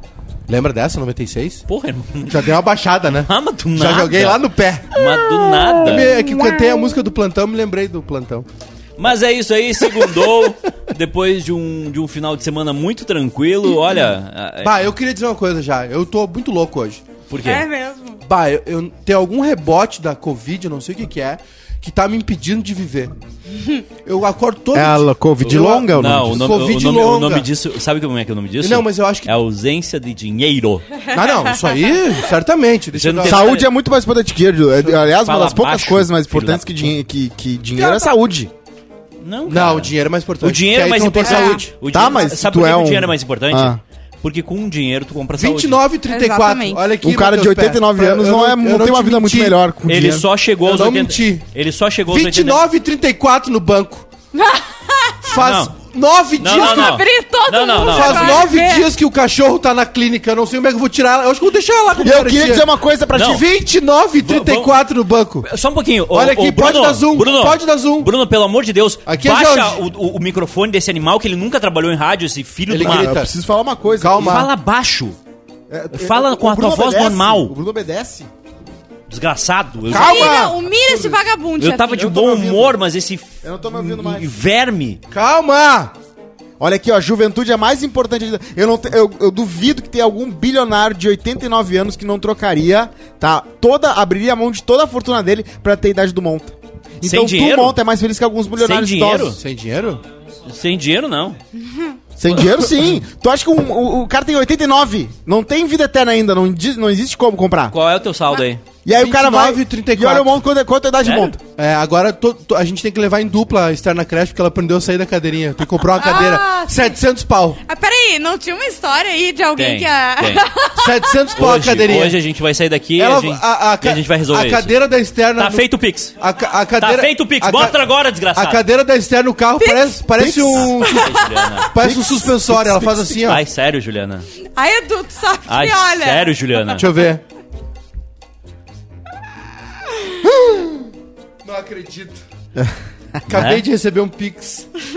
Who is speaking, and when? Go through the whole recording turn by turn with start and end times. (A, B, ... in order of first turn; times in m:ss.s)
0:00.5-0:01.6 A
0:01.7-0:02.6 B
0:02.3-0:05.0 A
0:03.2-0:06.2 B
0:05.6-0:08.5 A
0:06.3-0:06.8 C
0:09.0-0:14.8 B
0:10.0-0:10.3 A
0:14.6-0:17.0 A
0:17.3-0:17.6 B
0:17.4-0:18.2 C
0:18.2-0:23.2 A
0:24.0-0:27.5 A
0:24.7-0:26.6 D
0:25.5-0:30.9 B
0:28.6-0:29.3 A
0:31.1-0:33.5 A
0:32.9-0:33.7 B
0:33.2-0:38.5 D
0:34.8-0:36.9 B
0:37.8-0:38.1 A
0:39.2-0:45.8 B
0:39.5-0:42.2 A
0:41.2-0:41.6 C
0:41.9-0:43.8 D
0:45.4-0:49.6 A
0:46.1-0:46.9 C
0:47.0-0:50.3 D
0:49.9-0:52.6 B
0:50.6-0:51.4 A
0:52.1-0:54.1 A
0:54.3-0:55.4 C
0:55.2-0:57.0 A
0:55.4-0:55.7 B
0:56.4-0:58.5 B
0:56.4-0:58.9 C
0:57.8-1:02.7 A
1:02.0-1:03.4 D
1:03.2-1:03.4 B
1:03.2-1:05.5 A
1:04.2-1:04.8 B
1:05.4-1:13.2 B
1:06.1-1:08.1 A
1:09.1-1:09.8 A
1:12.7-1:13.3 A
1:12.8-1:14.4 D
1:14.0-1:14.5 A
1:14.2-1:15.2 B
1:15.7-1:18.3 D
1:15.9-1:17.5 B
1:19.1-1:20.4 B
1:19.9-1:21.2 A
1:19.9-1:22.1 C
1:21.6-1:25.0 B
1:22.0-1:22.8 A
1:23.4-1:24.3 D
1:25.1-1:25.9 A
1:26.6-1:39.4 D
1:37.0-1:37.8 B
1:38.6-1:39.4 B
1:39.4-1:40.0 A
1:40.4-1:41.4 B
1:42.2-1:47.8 D
1:47.7-1:48.6 B
1:48.8-1:51.4 D
1:48.9-1:50.4 A
1:51.0-1:51.4 B
1:51.6-1:57.6 A
1:55.9-1:56.8 C
1:57.7-2:01.3 C
1:59.6-2:00.5 B
2:00.8-2:02.2 A
2:01.4-2:04.8 B
2:03.0-2:07.8 A
2:05.4-2:06.2 B
2:06.8-2:08.6 B
2:08.4-2:13.4 A
2:09.6-2:10.0 C
2:10.2-2:10.7 D
2:10.6-2:11.7 B
2:10.8-2:11.2 C
2:11.8-2:13.1 D
2:13.2-2:14.3 B
2:14.5-2:16.7 C
2:15.5-2:16.9 B
2:16.8-2:17.2 A
2:20.2-2:20.9 A
2:21.4-2:22.2 A
2:23.3-2:24.7 A
2:23.3-2:23.6 B